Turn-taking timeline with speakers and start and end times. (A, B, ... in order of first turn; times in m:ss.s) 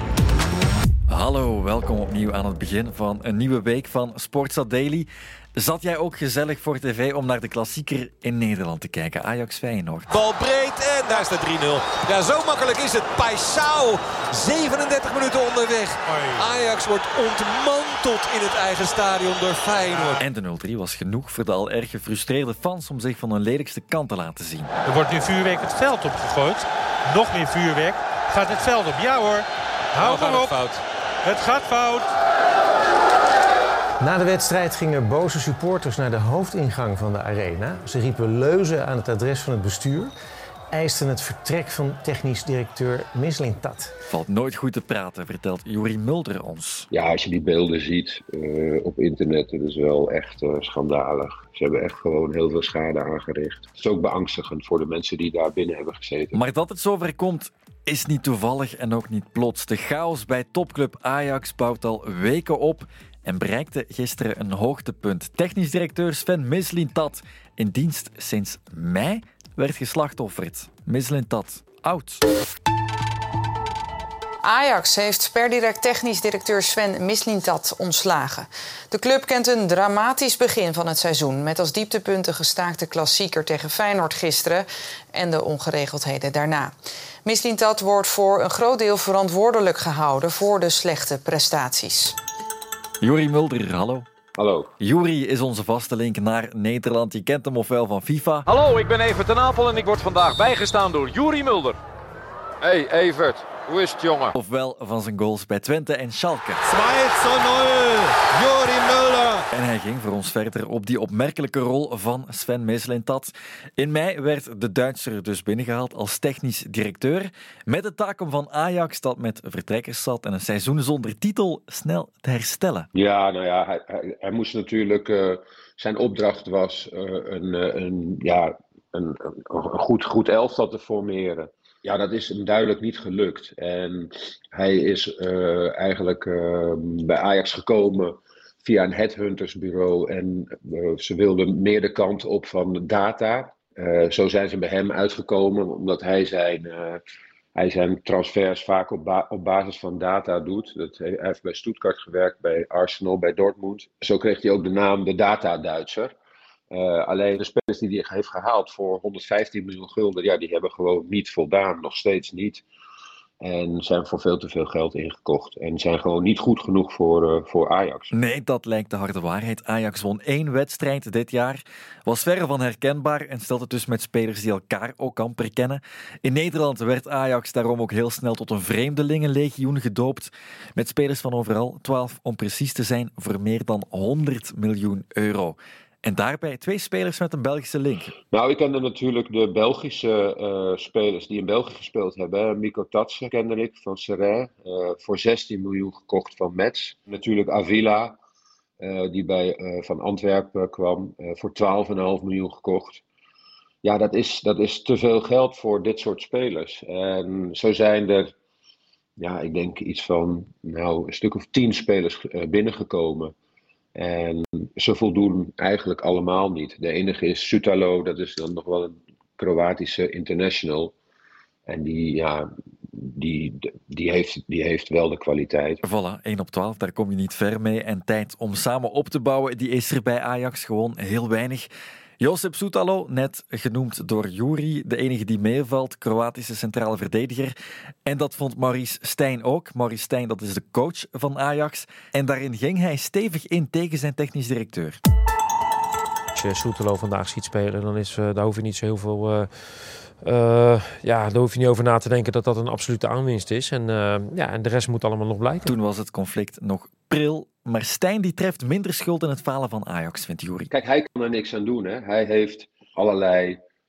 0:01.1-0:10.1 A
0:10.1-0:20.2 B
0:16.0-0:16.4 C
0:20.2-0:24.7 A
0:24.8-0:30.6 C
0:30.0-0:30.8 B
0:31.2-0:32.1 C
0:34.0-0:40.1 D
0:40.7-0:43.9 D
0:44.1-0:46.9 A
0:46.9-0:56.4 E
0:56.3-1:12.2 A
1:14.4-1:26.7 F
1:27.2-1:32.2 F
1:33.0-1:34.0 A
1:34.4-1:34.7 E
1:34.8-1:38.4 A
1:38.4-1:41.8 G
1:43.2-1:44.3 G
1:44.3-1:46.7 A
1:46.7-1:49.4 B
1:49.5-2:02.9 A
2:02.9-2:27.0 E
2:27.5-2:36.1 E
2:36.7-2:42.6 E
2:43.4-2:48.1 E
2:48.1-3:08.1 A
3:08.3-3:18.2 E
3:18.8-3:23.0 E
3:23.8-3:28.3 E
3:29.2-3:33.3 E
3:33.9-3:40.9 E
3:41.7-3:45.8 E
3:45.8-3:51.7 A
3:52.2-3:57.5 A
3:58.0-4:05.0 A
4:06.3-4:15.8 H
4:15.6-4:20.7 A
4:20.7-4:23.6 E